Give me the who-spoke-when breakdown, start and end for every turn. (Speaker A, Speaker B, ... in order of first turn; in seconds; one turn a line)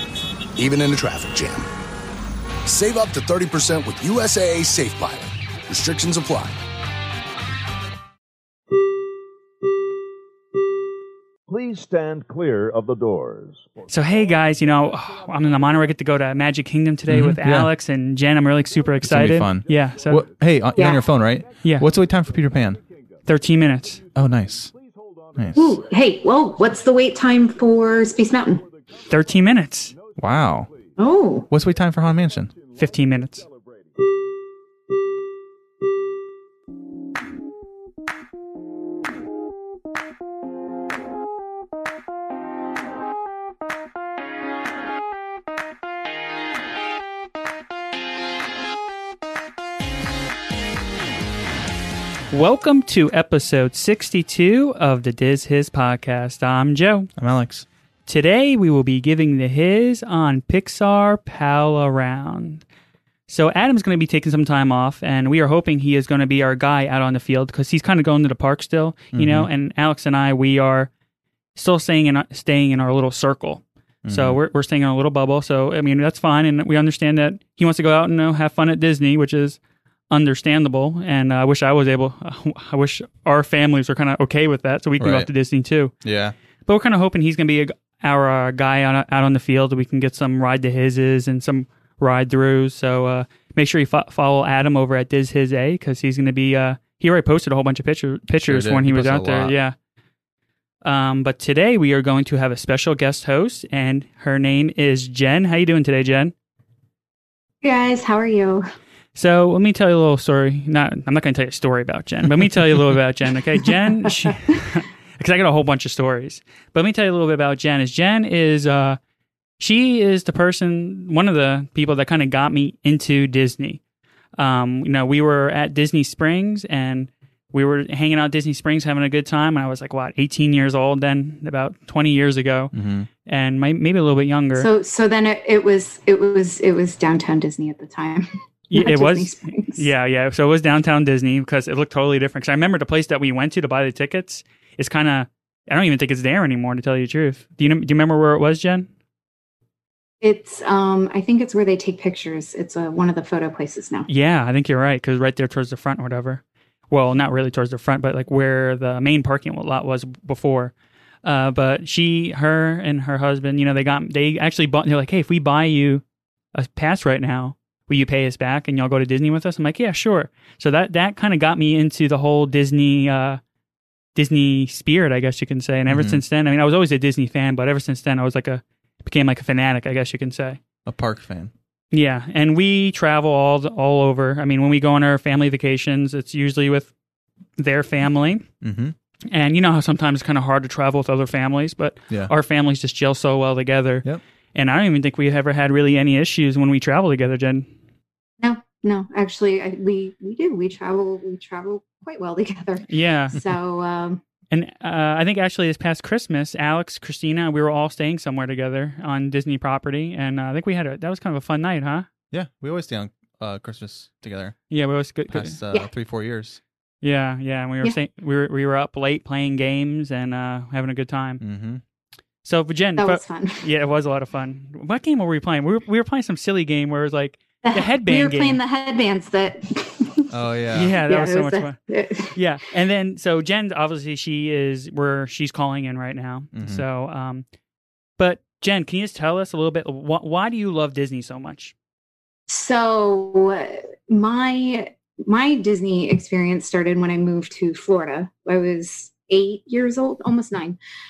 Speaker A: 0.6-1.7
Speaker A: 2.6-6.6
Speaker B: 11.5-16.4
Speaker C: 13.9-20.3
Speaker D: 17.1-17.7
Speaker B: 18.6-31.0
Speaker D: 19.0-22.8
Speaker E: 20.8-21.0
Speaker C: 23.2-24.0
Speaker D: 24.1-24.7
Speaker D: 25.4-25.8
Speaker E: 25.5-28.6
Speaker C: 29.1-29.9
Speaker D: 30.2-30.7
Speaker E: 31.0-31.5
Speaker D: 31.5-32.5
Speaker B: 31.5-34.0
Speaker C: 32.8-33.4
Speaker C: 52.3-57.1
Speaker D: 57.2-57.6
Speaker C: 58.0-62.6
Speaker C: 63.3-70.9
Speaker D: 69.1-69.5
Speaker C: 71.5-79.6
Speaker D: 74.0-74.4
Speaker C: 80.1-85.9
Speaker D: 85.0-85.3
Speaker D: 86.0-86.3
Speaker C: 86.7-99.7
Speaker D: 98.4-99.5
Speaker C: 100.8-106.3
Speaker E: 107.6-108.6
Speaker C: 109.1-119.0
Speaker D: 112.4-112.9
Speaker C: 119.6-123.8
Speaker C: 124.4-132.7
Speaker D: 132.7-133.1
Speaker C: 133.2-134.7
Speaker E: 134.6-139.9
Speaker C: 138.7-148.9
Speaker E: 150.2-154.1
Speaker C: 154.1-160.7
Speaker C: 161.2-166.0
Speaker C: 166.5-173.4
Speaker C: 174.1-180.6
Speaker D: 175.9-176.2
Speaker D: 180.8-181.5
Speaker C: 181.9-186.9
Speaker C: 187.6-188.4
Speaker D: 188.6-188.9
Speaker C: 189.3-197.7
Speaker E: 198.4-204.2
Speaker C: 202.9-203.4
Speaker C: 204.5-212.1
Speaker D: 212.3-214.6
Speaker C: 214.7-215.6
Speaker D: 215.3-216.6
Speaker C: 217.0-221.4
Speaker D: 221.4-221.8
Speaker C: 222.4-228.6
Speaker E: 223.0-223.7
Speaker E: 227.6-230.3
Speaker D: 230.3-230.9
Speaker C: 230.7-231.8
Speaker E: 231.1-232.4
Speaker C: 232.3-237.4
Speaker D: 236.5-236.8
Speaker C: 238.2-241.7
Speaker E: 242.5-250.8